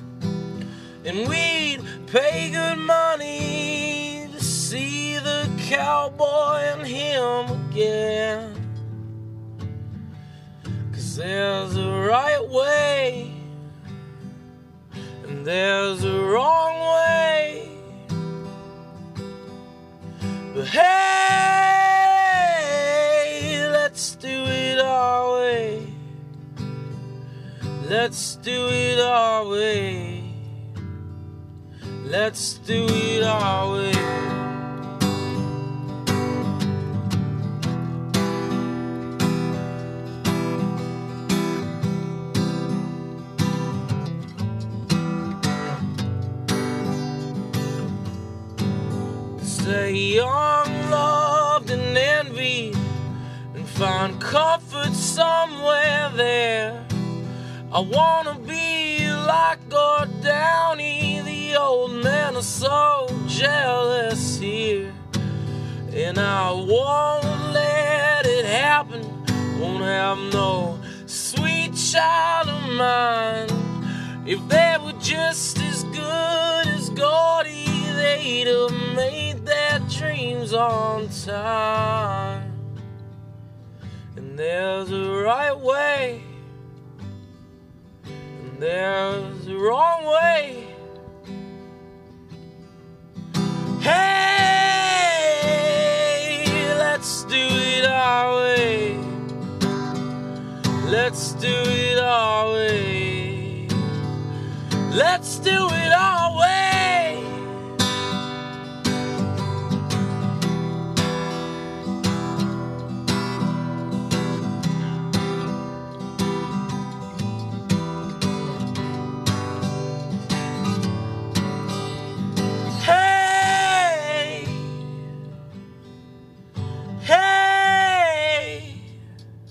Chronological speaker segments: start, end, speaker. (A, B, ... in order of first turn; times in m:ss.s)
0:01.0-0:08.6 A
0:10.9-0:13.4 A
0:15.2-0:17.8 A
0:20.5-0:26.0 A
0:27.8-0:30.4 A
0:32.0-0:34.5 A
0:49.4-0:52.8 A
0:53.5-0:56.9 A
0:57.7-1:05.0 A
1:05.9-1:22.6 A
1:24.1-1:26.3 A
1:28.4-1:30.7 A
1:33.8-1:39.2 A
1:40.8-1:43.8 A
1:44.9-1:47.5 A
2:02.8-2:04.7 A
2:07.0-2:08.8 A